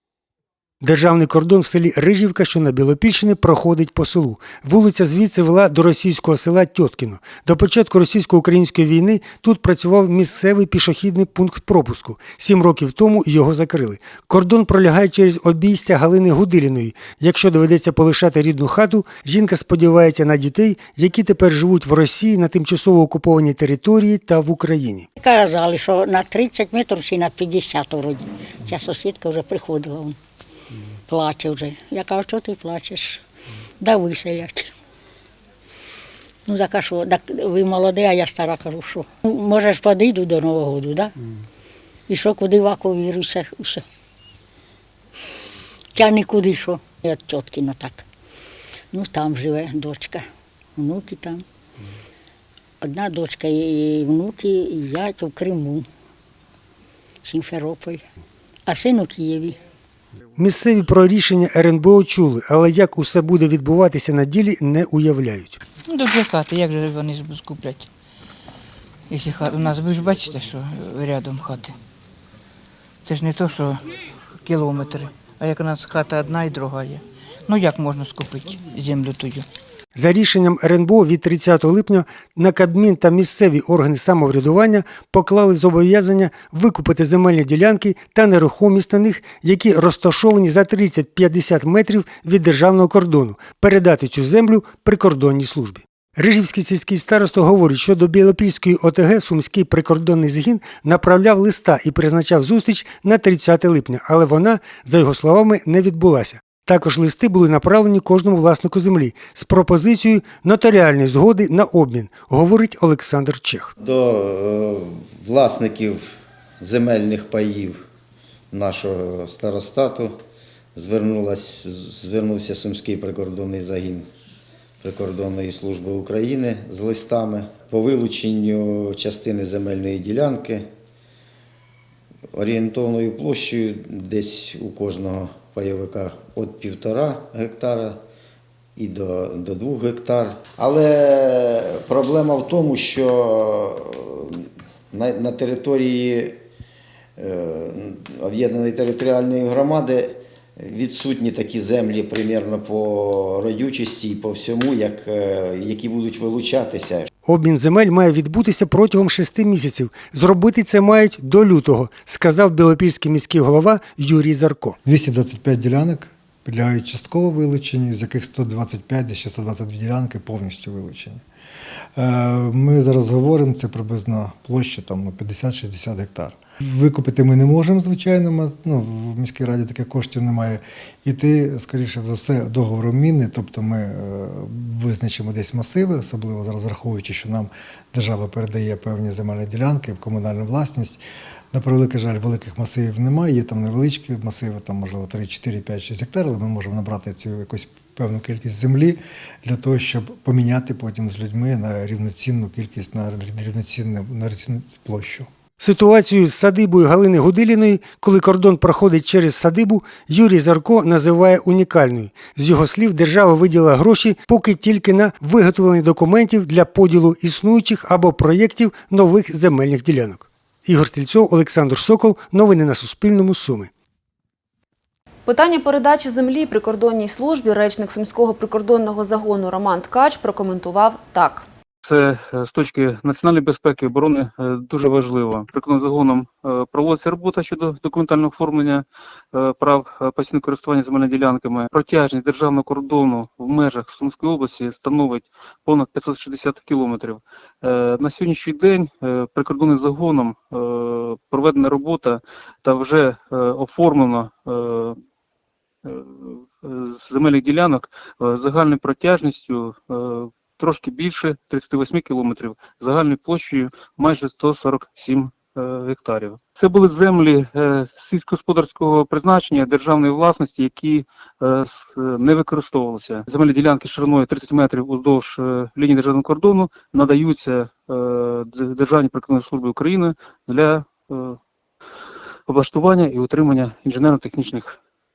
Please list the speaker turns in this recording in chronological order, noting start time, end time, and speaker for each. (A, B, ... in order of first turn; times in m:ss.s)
0:00.8-0:25.1 A
0:25.2-0:30.2 B
0:31.1-0:33.2 B
0:33.8-0:34.7 B
0:36.5-0:41.2 B
0:42.1-0:43.8 B
0:45.9-0:48.1 B
0:48.9-0:51.4 B
0:52.8-0:55.9 B
0:57.2-0:58.0 B
0:58.7-0:59.6 B
1:00.4-1:05.6 A
1:05.8-1:07.9 C
1:09.1-1:11.8 C
1:13.0-1:19.5 C
1:20.0-1:53.7 A
1:53.8-1:56.0 D
1:56.6-1:57.8 D
1:58.5-2:00.2 D
2:00.8-2:04.1 D
2:04.8-2:10.7 D
2:12.3-2:18.0 D
2:18.8-2:26.4 D
2:27.2-2:37.1 D
2:37.2-2:44.8 A
2:44.8-2:51.2 E
2:52.0-3:11.0 E
3:11.5-3:25.3 E
3:25.6-3:43.7 A
3:45.3-3:51.5 F
3:51.8-4:15.0 G
4:15.8-4:41.4 G
4:42.5-4:44.8 G